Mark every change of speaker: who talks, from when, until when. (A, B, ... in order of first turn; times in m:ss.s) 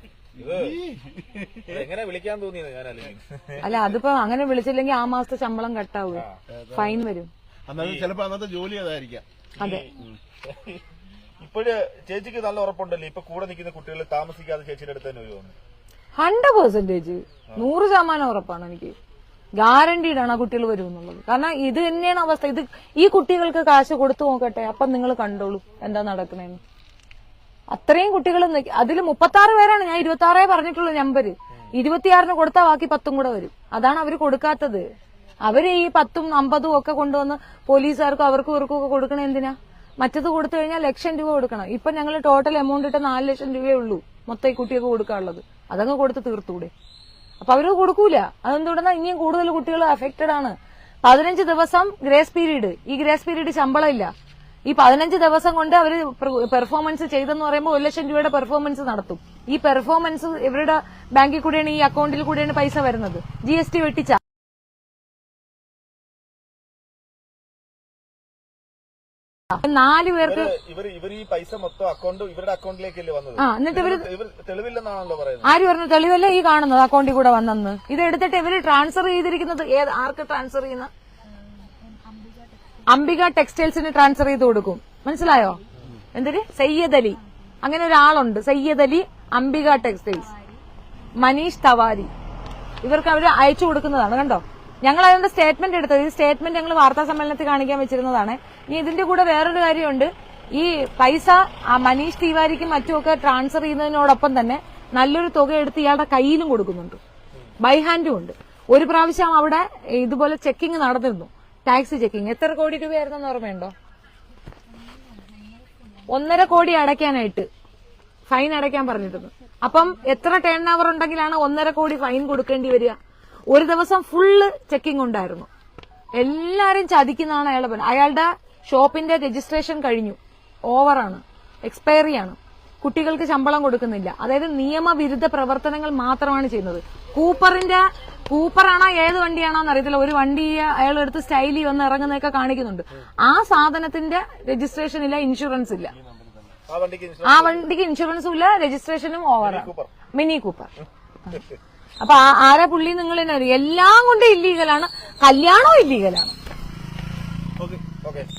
0:00.4-0:01.9 A
0:00.4-0:00.8 B
0:01.7-0:03.9 B
0:03.6-0:07.3 C
0:06.5-0:07.0 A
0:07.7-0:09.2 A
0:07.8-0:08.0 B
0:09.6-0:09.9 B
0:09.6-0:09.8 C
0:10.4-0:10.8 B
0:11.4-0:15.5 B
0:16.2-0:19.0 C
0:19.6-0:26.6 C
0:27.7-0:34.9 C
0:35.4-0:46.7 C
0:47.4-0:54.1 C
0:54.7-1:04.2 C
1:09.5-1:10.5 C
1:10.2-1:15.5 B
1:13.4-1:14.1 C
1:15.4-1:20.9 C
1:22.9-1:25.6 C
1:26.1-1:30.3 C
1:31.2-1:32.1 C
1:32.8-1:47.0 C
1:47.6-1:53.7 C
1:56.1-1:57.5 C
1:58.3-2:03.0 C
2:03.5-2:05.5 C
2:06.2-2:25.9 C
2:25.9-2:26.6 A
2:26.7-2:27.6 B
2:27.2-2:30.7 C
2:29.4-2:29.9 B
2:32.0-2:36.4 C
2:38.0-2:38.3 B